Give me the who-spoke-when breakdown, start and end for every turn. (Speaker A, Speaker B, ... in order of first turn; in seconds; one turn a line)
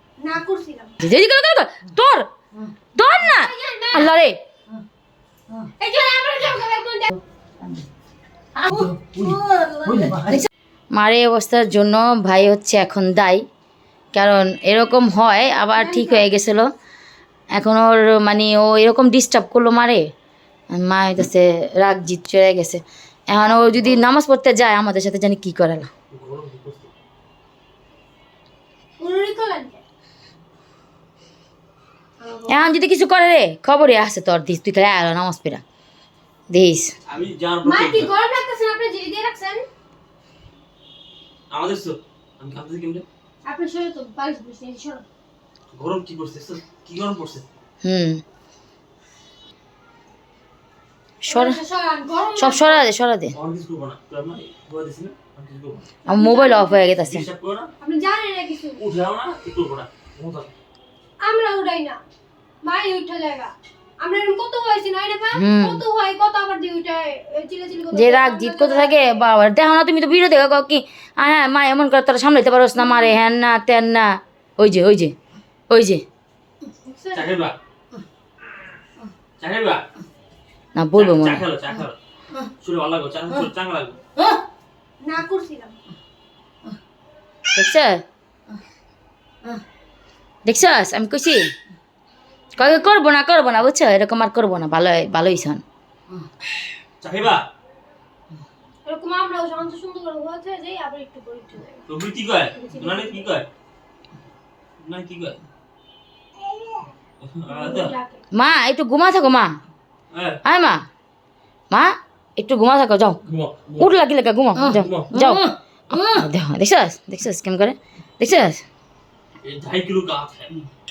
Speaker A: 0.2-0.9
Speaker B: 1.0-4.7
Speaker A: 3.2-4.1
Speaker A: 5.8-7.1
Speaker B: 7.1-7.8
Speaker B: 8.6-13.4
Speaker C: 8.7-10.5
Speaker B: 14.1-16.7
Speaker A: 15.7-16.2
Speaker B: 17.5-20.1
Speaker B: 20.7-25.9
Speaker C: 26.1-26.9
Speaker A: 29.0-29.8
Speaker A: 32.2-32.6
Speaker B: 32.5-35.6
Speaker B: 36.5-36.9
Speaker C: 37.1-38.1
Speaker A: 37.6-39.6
Speaker C: 41.5-43.0
Speaker A: 43.4-45.0
Speaker C: 45.7-47.5
Speaker B: 47.8-48.2
Speaker B: 51.2-51.6
Speaker A: 51.3-52.8
Speaker B: 52.4-53.3
Speaker C: 53.3-55.8
Speaker B: 56.1-57.2
Speaker A: 56.1-56.8
Speaker C: 57.0-57.7
Speaker A: 57.8-58.8
Speaker C: 58.8-60.5
Speaker A: 61.2-62.0
Speaker A: 62.6-69.2
Speaker B: 65.3-65.8
Speaker B: 67.9-75.1
Speaker A: 72.8-73.1
Speaker B: 75.7-76.0
Speaker A: 76.8-77.3
Speaker C: 77.1-77.5
Speaker C: 79.4-79.8
Speaker B: 80.7-81.4
Speaker C: 81.0-82.0
Speaker C: 82.6-84.0
Speaker B: 84.2-84.4
Speaker A: 85.0-85.8
Speaker B: 87.5-88.0
Speaker B: 90.4-91.5
Speaker B: 92.5-96.2
Speaker C: 97.0-97.4
Speaker A: 98.8-101.8
Speaker C: 101.9-103.5
Speaker A: 102.6-103.2
Speaker C: 104.8-105.4
Speaker C: 107.2-107.9
Speaker A: 107.5-108.2
Speaker B: 108.3-109.6
Speaker C: 110.1-110.4
Speaker B: 110.4-110.8
Speaker B: 111.7-113.2
Speaker C: 113.3-113.9
Speaker B: 113.8-118.6
Speaker C: 114.7-115.1
Speaker C: 119.4-120.5